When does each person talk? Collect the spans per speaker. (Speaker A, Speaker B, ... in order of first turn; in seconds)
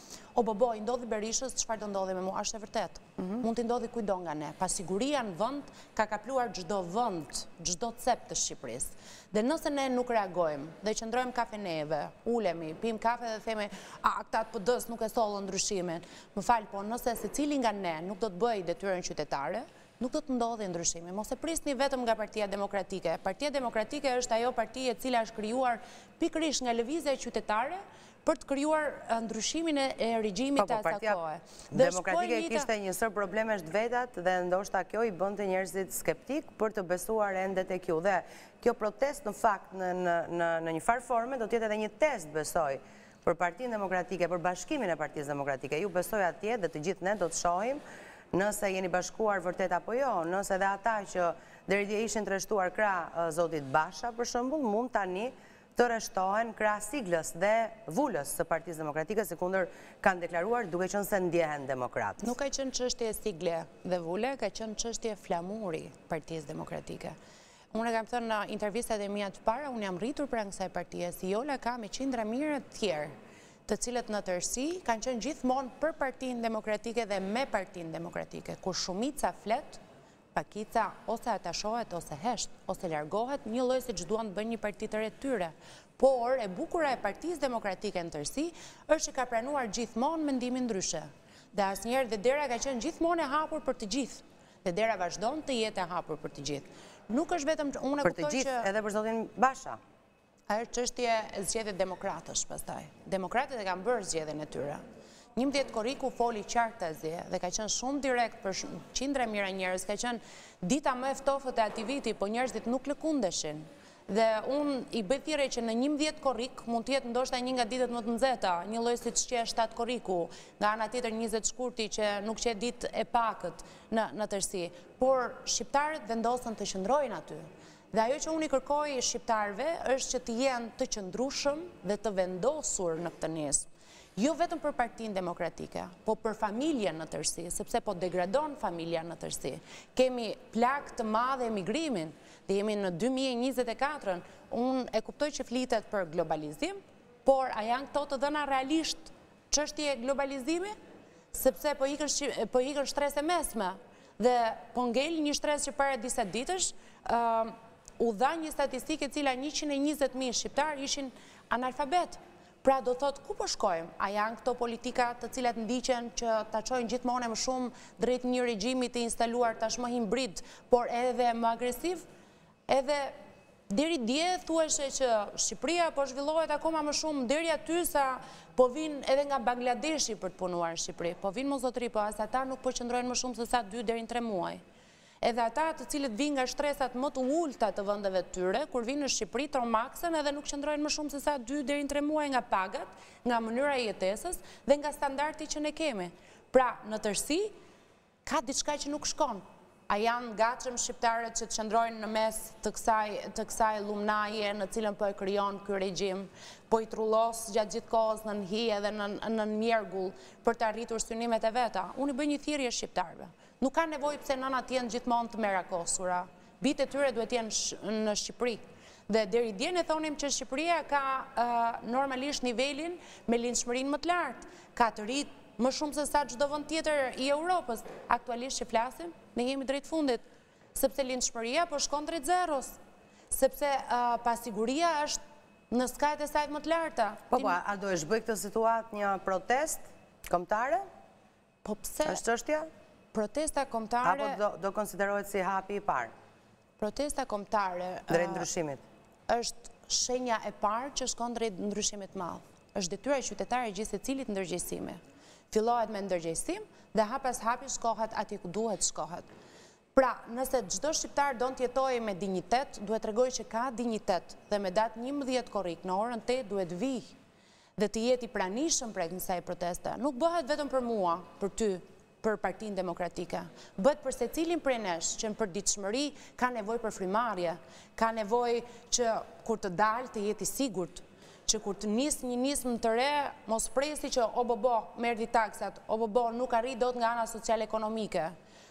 Speaker A: 0.3-32.7, 62.2-67.2, 67.7-73.2, 73.7-79.8, 80.3-98.7, 100.5-104.8, 105.4-150.7, 151.3-172.0, 172.7-173.1, 173.7-184.6, 185.2-197.5, 198.3-230.2, 230.8-232.8, 233.3-237.6, 241.6-242.2, 243.1-244.4, 246.8-248.5, 249.3-255.0, 255.5-259.3, 259.9-267.1, 267.8-288.3
Speaker B: 30.6-31.2, 31.7-47.8, 48.3-62.3, 98.0-99.8, 237.3-240.8, 242.0-242.7, 244.0-246.1, 248.1-248.8